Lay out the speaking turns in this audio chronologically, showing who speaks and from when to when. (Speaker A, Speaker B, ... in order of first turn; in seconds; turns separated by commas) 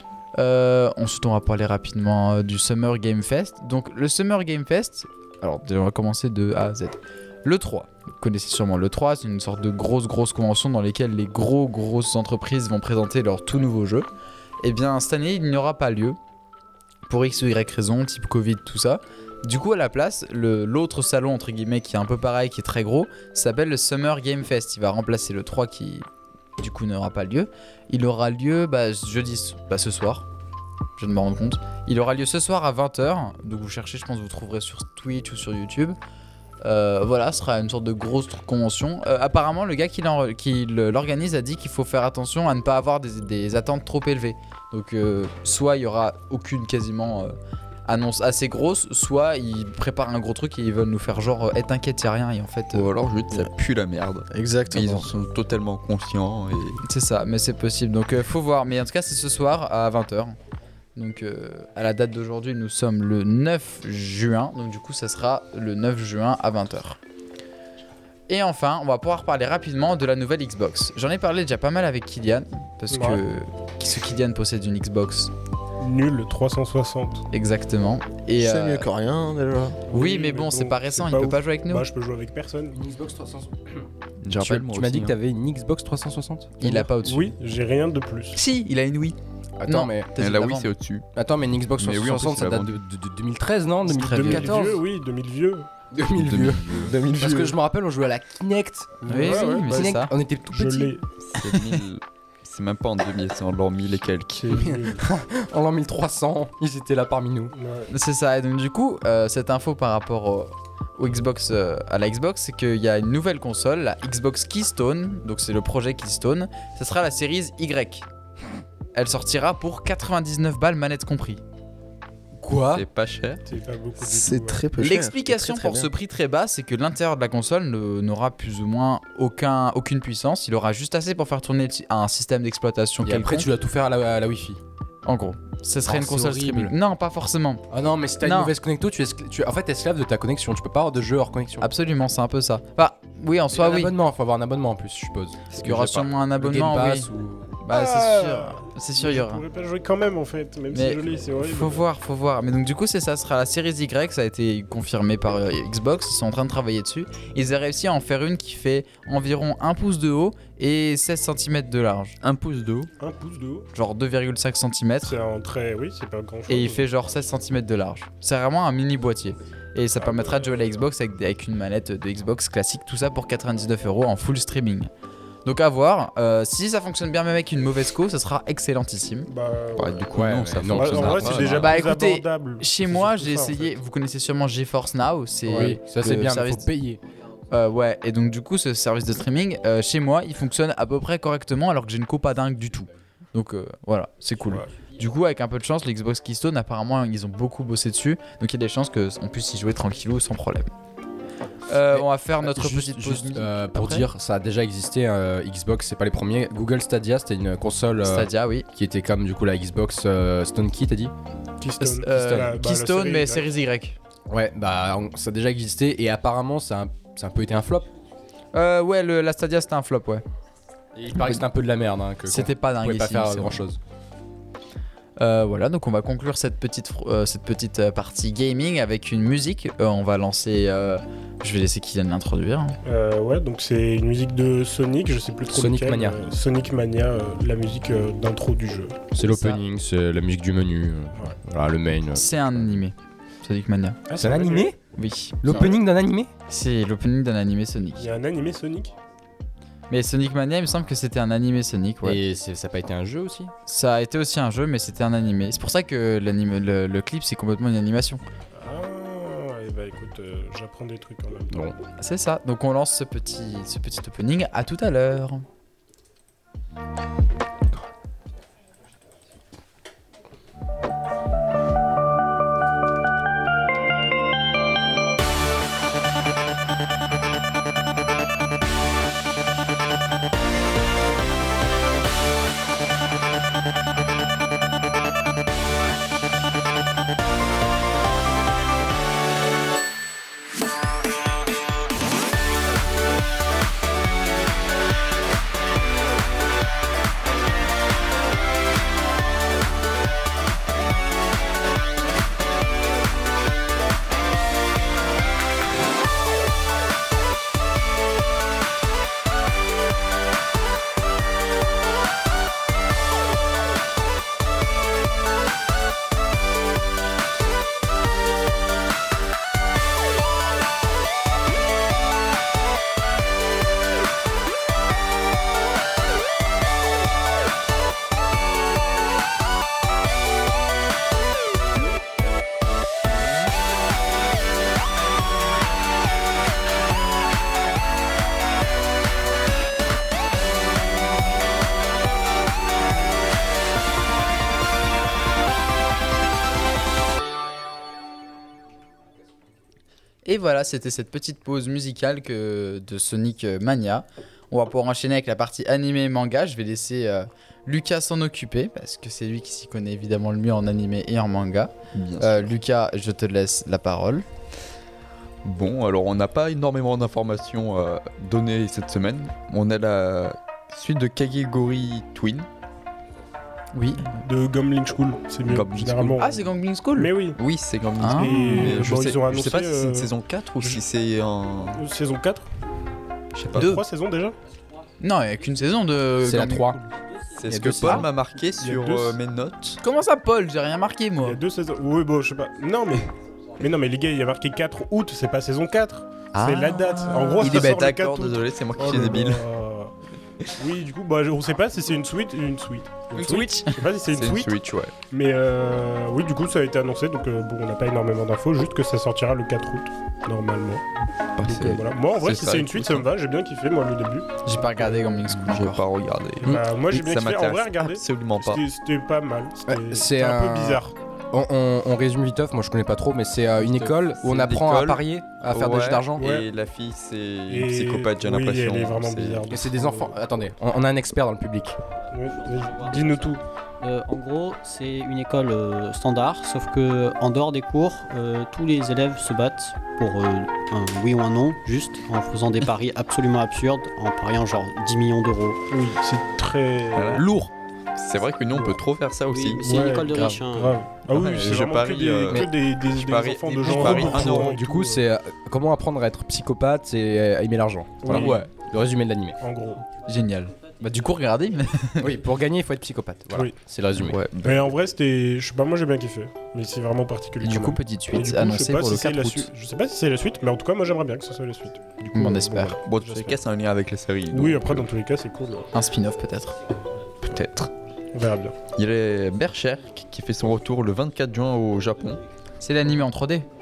Speaker A: 0.3-14.1, Speaker A: 14.6-16.2, Speaker A: 17.1-26.1, Speaker A: 26.6-30.2, Speaker A: 31.0-36.0, Speaker A: 36.6-47.3, Speaker A: 47.9-52.9, Speaker B: 52.7-56.8, Speaker C: 54.3-55.1, Speaker A: 56.8-60.4, Speaker A: 61.0-67.0, Speaker A: 68.3-75.3, Speaker D: 72.9-73.2, Speaker D: 75.8-77.2, Speaker A: 77.3-78.9, Speaker C: 78.3-79.8, Speaker D: 79.9-82.8, Speaker A: 79.9-81.8, Speaker E: 82.7-86.9, Speaker B: 84.2-85.1, Speaker A: 86.6-87.3, Speaker D: 87.0-88.4, Speaker A: 88.3-90.7, Speaker E: 89.6-90.1, Speaker B: 90.2-91.0, Speaker E: 91.1-94.8, Speaker B: 91.8-92.8, Speaker D: 93.9-95.7, Speaker E: 95.9-100.9, Speaker B: 96.1-97.0, Speaker C: 96.8-97.6, Speaker D: 99.0-101.0, Speaker A: 99.0-100.1, Speaker B: 101.2-104.6, Speaker A: 101.4-101.8, Speaker D: 104.4-105.0, Speaker E: 104.5-107.5, Speaker D: 107.5-107.9, Speaker A: 107.9-118.0, Speaker A: 118.9-121.4, Speaker E: 122.4-122.8, Speaker B: 122.7-123.4, Speaker D: 123.5-124.6, Speaker C: 124.0-125.9, Speaker A: 124.8-133.5, Speaker E: 133.0-134.6, Speaker A: 135.1-137.7, Speaker E: 135.8-136.7, Speaker E: 137.7-141.7, Speaker A: 138.2-138.5, Speaker A: 141.6-143.9, Speaker E: 143.5-147.5, Speaker A: 145.6-147.1, Speaker A: 147.6-149.4, Speaker D: 147.7-151.8, Speaker A: 150.7-162.2, Speaker B: 162.2-162.9, Speaker D: 163.0-163.7, Speaker A: 163.7-165.1, Speaker D: 165.0-166.8, Speaker A: 166.5-174.9, Speaker D: 170.0-170.7, Speaker A: 175.4-179.3, Speaker D: 179.3-180.1, Speaker B: 179.8-181.8, Speaker E: 180.1-181.6, Speaker D: 180.8-183.7, Speaker A: 181.5-186.7, Speaker D: 185.5-185.7, Speaker E: 185.5-187.0, Speaker A: 187.5-200.7, Speaker A: 201.7-204.1, Speaker E: 201.9-211.1, Speaker A: 208.0-208.7, Speaker D: 211.6-213.5, Speaker A: 211.8-214.0, Speaker E: 214.3-217.9, Speaker A: 218.5-220.2, Speaker E: 220.9-223.8, Speaker A: 222.3-223.6, Speaker A: 225.2-232.8, Speaker D: 232.8-239.0, Speaker E: 235.5-236.2, Speaker E: 239.1-242.6, Speaker A: 239.2-239.6, Speaker A: 242.1-244.0, Speaker D: 244.1-244.7, Speaker E: 244.2-244.8, Speaker A: 244.9-245.7, Speaker E: 245.4-246.3, Speaker D: 245.4-245.8, Speaker A: 246.5-248.2, Speaker D: 248.0-248.9, Speaker A: 249.9-252.2, Speaker E: 252.0-253.5, Speaker A: 253.7-258.2, Speaker D: 258.5-261.7, Speaker E: 261.5-261.8, Speaker A: 262.0-265.4, Speaker A: 350.2-364.2, Speaker B: 361.9-362.5, Speaker B: 365.4-372.5, Speaker A: 373.7-374.2, Speaker D: 374.1-376.4, Speaker B: 375.4-376.2, Speaker A: 376.2-377.1, Speaker D: 376.9-377.4, Speaker B: 377.4-381.8, Speaker A: 378.0-378.7, Speaker D: 378.1-380.8, Speaker D: 381.7-382.5, Speaker B: 383.3-383.8, Speaker A: 383.5-383.8, Speaker D: 383.5-384.4, Speaker A: 385.0-386.8, Speaker E: 386.2-386.8, Speaker B: 387.3-389.8, Speaker E: 387.5-388.1, Speaker A: 387.8-388.1, Speaker D: 388.6-389.2, Speaker A: 389.8-391.4, Speaker D: 391.2-399.9, Speaker B: 396.3-399.4, Speaker D: 400.6-404.6, Speaker A: 403.1-403.8, Speaker B: 404.1-404.9, Speaker D: 405.1-410.8, Speaker B: 411.4-413.1, Speaker D: 411.4-415.2, Speaker A: 414.4-415.8, Speaker B: 415.3-418.6, Speaker D: 416.4-420.9, Speaker E: 419.7-426.2, Speaker B: 423.6-429.5, Speaker D: 426.2-426.5, Speaker D: 427.5-430.1, Speaker E: 429.5-431.8, Speaker D: 432.1-433.4, Speaker F: 432.8-445.6, Speaker D: 445.7-447.2, Speaker B: 446.9-447.2, Speaker E: 447.1-447.5, Speaker B: 447.9-449.6, Speaker F: 449.3-450.9, Speaker D: 449.6-455.0, Speaker A: 450.1-450.4, Speaker B: 451.0-454.6, Speaker E: 453.7-459.4, Speaker D: 458.0-458.4, Speaker B: 458.1-458.4, Speaker D: 459.4-459.8, Speaker A: 460.1-462.2, Speaker E: 462.0-464.2, Speaker B: 463.9-464.7, Speaker D: 464.4-473.4, Speaker A: 467.4-469.5, Speaker A: 472.1-472.8, Speaker B: 472.8-474.9, Speaker D: 474.3-475.7, Speaker A: 475.7-476.6, Speaker B: 477.2-477.7, Speaker D: 478.1-478.6, Speaker B: 478.7-482.2, Speaker A: 482.6-483.5